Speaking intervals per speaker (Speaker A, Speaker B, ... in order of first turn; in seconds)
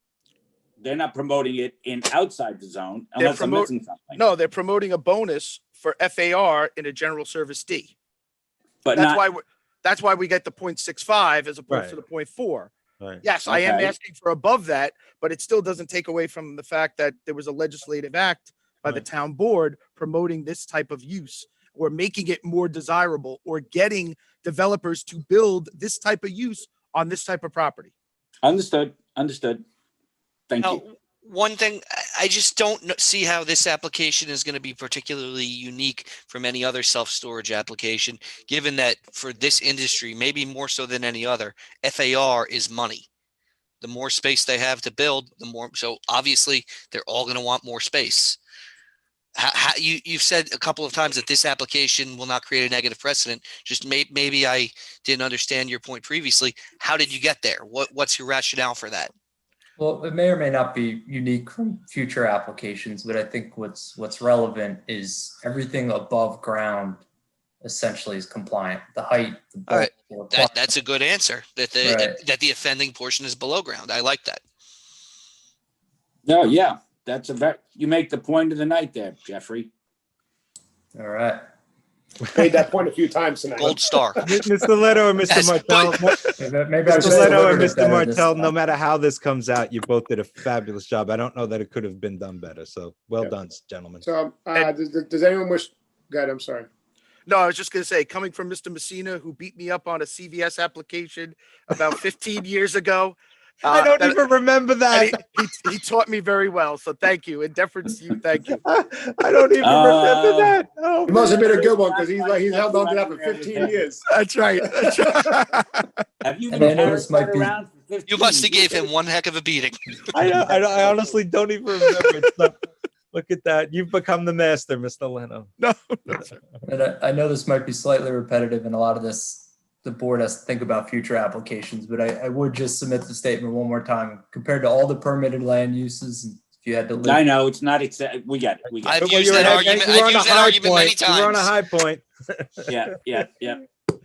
Speaker A: 0.8-4.2, 8.8-9.2, 13.5-13.9, 28.4-29.6, 30.5-30.8, 76.2-79.7, 109.6-113.9, 116.2-118.9, 137.0-139.7, 142.7-143.6
Speaker B: 3.2-7.9, 8.9-12.7, 13.2-27.9, 97.2-104.2, 104.9-108.6, 111.3-111.7, 114.1-116.0, 125.6-126.4
Speaker C: 11.7-11.9, 84.2-86.3, 86.8-94.0, 103.6-105.2, 108.6-111.2, 120.1-122.6, 123.1-125.5, 138.9-142.9
Speaker D: 30.6-43.0, 43.8-48.4, 49.4-59.1, 69.7-74.4, 83.6-84.2, 85.3-86.3, 118.1-120.2, 138.8-141.5
Speaker E: 59.8-67.0, 67.6-70.7, 71.8-72.2, 80.9-81.4, 86.4-88.5, 116.5-117.6, 126.6-137.2
Speaker F: 82.3-84.2, 94.0-96.7, 111.0-114.0, 114.6-115.0